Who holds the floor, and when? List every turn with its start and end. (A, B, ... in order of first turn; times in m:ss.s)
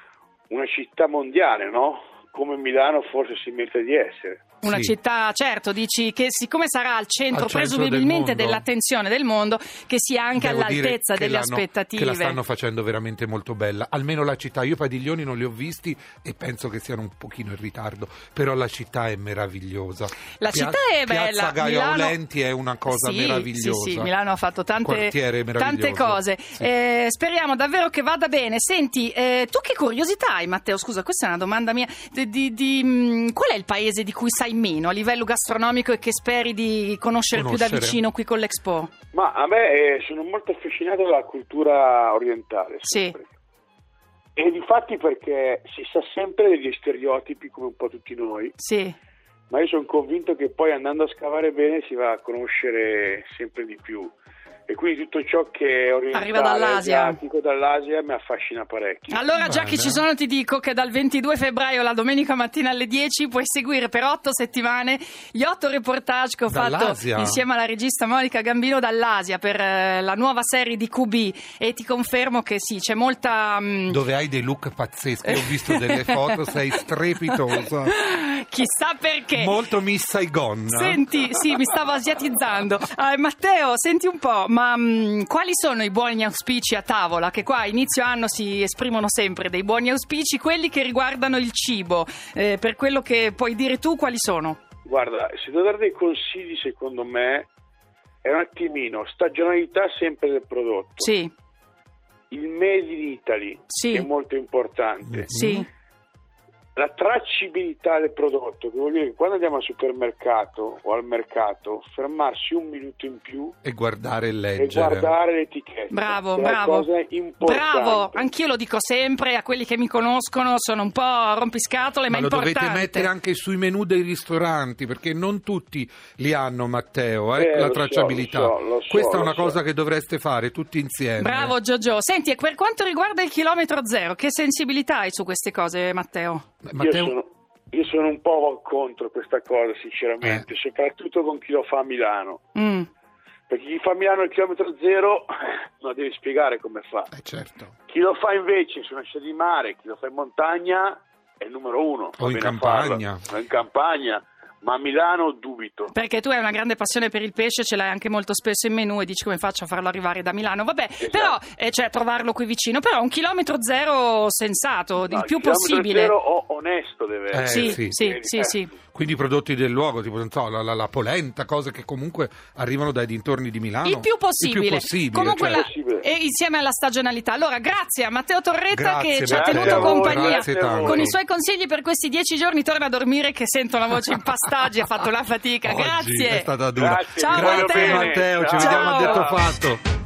0:00.5-0:04.4 A
0:04.6-0:12.4 B
0:04.6-0:04.9 C
0:07.3-0:08.6 C
0:10.4-0:24.1 C
0:20.4-0:22.1 B
0:22.8-0:38.9 B
0:24.8-0:26.6 C
0:37.3-0:38.0 C
0:39.1-0:43.3 A
0:42.9-0:43.2 B
0:44.4-0:48.6 A
0:48.6-0:49.0 B
0:49.5-0:54.1 A
0:54.7-0:59.3 A
0:56.1-0:57.2 B
0:59.1-1:14.0 B
0:59.4-1:00.0 C
1:06.5-1:07.4 C
1:13.9-1:18.0 C
1:15.3-1:16.4 B
1:17.3-1:19.6 B
1:19.3-1:21.3 C
1:20.7-1:34.6 B
1:34.8-1:37.5 A
1:38.2-1:41.1 A
1:41.0-1:41.3 B
1:42.3-1:45.3 A
1:43.7-1:44.1 B
1:45.0-1:45.6 C
1:45.3-1:45.7 B
1:46.8-1:53.6 A
1:53.6-1:55.1 C
1:54.6-1:58.3 A
1:55.9-1:56.9 B
1:57.4-2:03.1 B
2:02.1-2:11.5 C
2:07.4-2:09.6 A
2:11.2-2:16.4 B
2:16.6-2:17.1 C
2:16.8-2:22.4 A
2:22.5-2:22.9 B
2:23.5-2:27.1 A
2:27.1-2:27.7 C
2:27.9-2:35.9 A
2:32.2-2:33.2 C
2:35.9-2:46.1 B
2:41.0-2:41.4 A
2:45.0-2:48.7 A
2:47.3-2:48.0 C
2:47.4-2:48.7 B
2:48.9-2:55.6 C
2:53.8-3:06.5 B
2:55.3-2:56.0 A
2:58.7-3:01.2 C
2:59.3-3:01.1 A
3:05.6-3:09.8 C
3:06.8-3:09.4 A
3:07.2-3:09.3 B